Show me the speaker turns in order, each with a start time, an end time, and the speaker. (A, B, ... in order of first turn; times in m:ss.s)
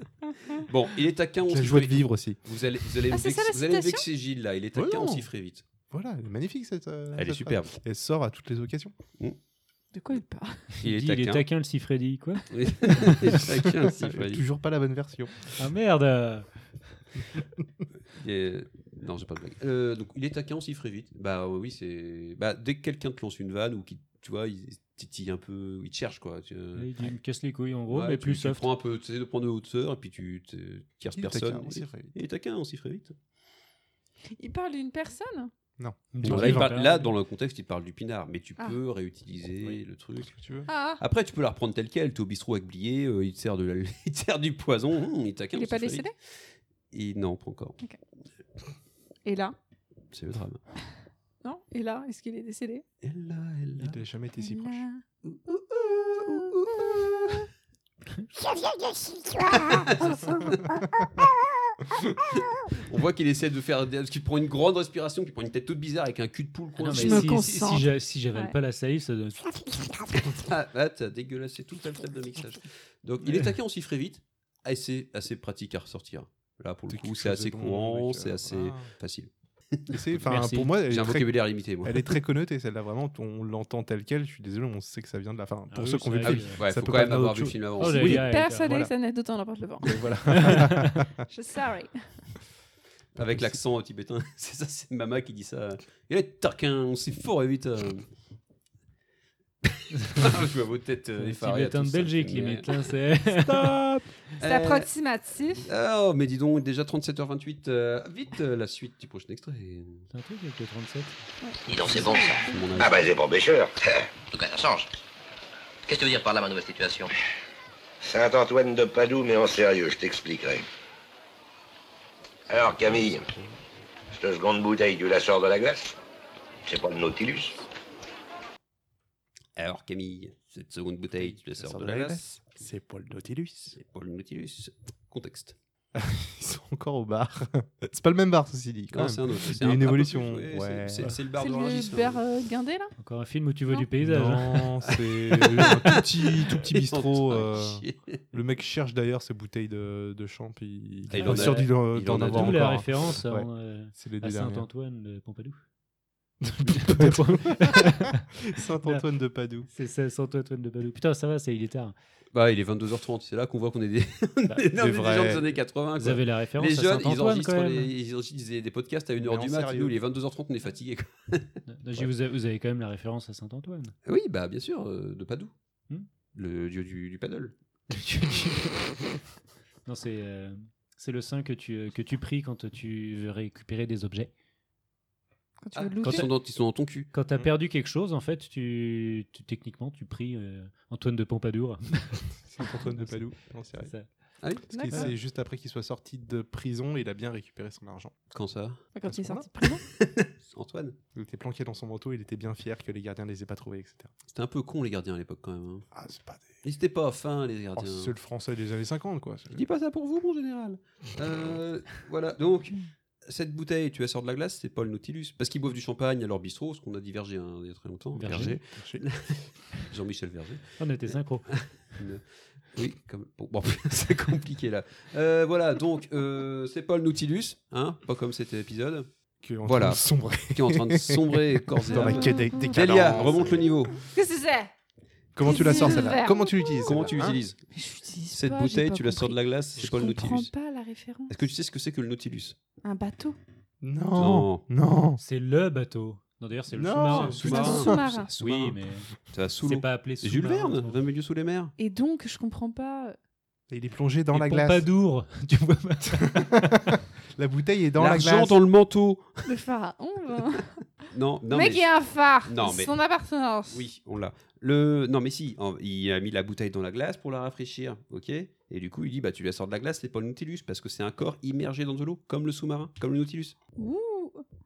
0:00.6-0:05.6 A
0:01.5-0:02.4 B
0:03.1-0:04.0 C
0:04.8-0:05.3 B
0:05.9-0:08.9 B
0:07.1-0:07.7 A
0:09.9-0:10.7 C
0:10.8-0:13.3 D
0:10.8-0:11.4 A
0:12.5-0:14.4 A
0:13.8-0:15.5 B
0:15.6-0:16.5 D
0:18.1-0:27.1 A
0:26.8-0:28.7 D
0:27.9-0:33.2 A
0:31.2-0:32.1 B
0:34.4-0:35.5 C
0:35.8-0:36.8 B
0:36.1-0:37.1 D
0:36.2-0:40.4 A
0:40.3-0:40.7 B
0:40.7-0:41.0 C
0:41.0-0:46.1 A
0:45.6-0:46.1 C
0:46.9-0:47.8 A
0:49.2-0:49.6 C
0:50.1-0:50.6 A
0:51.4-0:52.8 C
0:53.0-0:54.0 A
0:53.8-0:54.8 B
0:54.4-0:55.0 C
0:55.2-0:57.4 A
0:58.5-1:01.2 C
0:59.5-1:00.6 A
1:02.7-1:07.7 A
1:06.8-1:09.6 D
1:06.9-1:08.6 C
1:10.4-1:20.0 A
1:16.9-1:18.9 B
1:19.9-1:28.9 B
1:20.2-1:20.8 D
1:20.9-1:22.2 A
1:25.7-1:26.6 D
1:26.2-1:28.2 A
1:27.8-1:28.9 D
1:27.9-1:30.5 C
1:29.8-1:31.1 B
1:30.4-1:31.0 D
1:31.3-1:32.3 C
1:33.2-1:38.1 A
1:39.6-1:43.8 A
1:41.2-1:43.8 D
1:44.4-1:44.9 A
1:44.4-1:45.7 C
1:45.6-1:50.1 A
1:50.1-1:51.2 D
1:51.4-1:52.9 C
1:51.7-1:52.4 E
1:51.7-1:53.1 A
1:52.8-1:54.1 F
1:54.3-1:54.9 E
1:55.9-1:57.1 E
1:58.0-2:00.6 F
2:02.5-2:03.3 F
2:04.1-2:06.0 F
2:06.7-2:07.6 F
2:09.6-2:12.2 A
2:11.2-2:13.8 B
2:13.8-2:15.6 A
2:15.9-2:21.0 B
2:18.9-2:22.2 A
2:21.4-2:22.9 C
2:23.0-2:24.7 D
2:24.0-2:34.7 B
2:24.9-2:28.2 A
2:31.1-2:32.8 A
2:31.1-2:35.6 D
2:36.4-2:39.7 B
2:36.8-2:38.2 D
2:39.7-2:42.0 D
2:42.3-2:52.1 A
2:44.8-2:45.5 B
2:46.0-2:47.9 D
2:49.2-2:50.0 B
2:51.7-2:53.9 D
2:54.1-2:55.5 A
2:56.3-2:57.6 A
2:57.9-2:58.8 D
2:59.9-3:04.3 D
3:05.6-3:06.3 C
3:05.8-3:07.1 A
3:06.0-3:06.3 D
3:07.1-3:12.9 D
3:12.5-3:13.9 B
3:13.8-3:14.1 D
3:14.4-3:15.0 A
3:14.7-3:15.1 C
3:14.7-3:18.2 B
3:18.3-3:18.9 A
3:19.0-3:19.8 C
3:19.1-3:19.5 B
3:19.9-3:21.0 A
3:21.1-3:24.1 B
3:24.3-3:25.9 A
3:25.9-3:26.6 B
3:26.6-3:28.1 A
3:27.8-3:29.6 B
3:29.5-3:49.1 A
3:38.2-3:38.6 D
3:38.2-3:39.0 B
3:40.8-3:41.5 D
3:49.4-3:53.8 B
3:49.6-3:54.0 A
3:51.9-3:53.4 C
3:54.1-3:54.7 C
3:55.4-3:57.4 B
3:55.4-3:57.0 C
3:55.7-3:56.1 A
3:56.8-3:57.6 A
3:57.7-4:01.3 C
3:58.3-4:00.5 A
3:59.8-4:00.2 B
4:01.3-4:02.6 A
4:02.8-4:03.4 C
4:03.8-4:05.2 B
4:04.2-4:04.6 A
4:05.2-4:11.0 D
4:06.7-4:08.0 B
4:07.1-4:11.7 A
4:07.3-4:08.3 C
4:11.8-4:13.2 C
4:13.7-4:14.9 B
4:14.3-4:16.7 D
4:16.1-4:18.6 B
4:18.0-4:19.5 A
4:19.4-4:20.8 C
4:21.1-4:23.0 A
4:21.5-4:23.8 C
4:23.7-4:33.6 A
4:33.8-4:34.4 C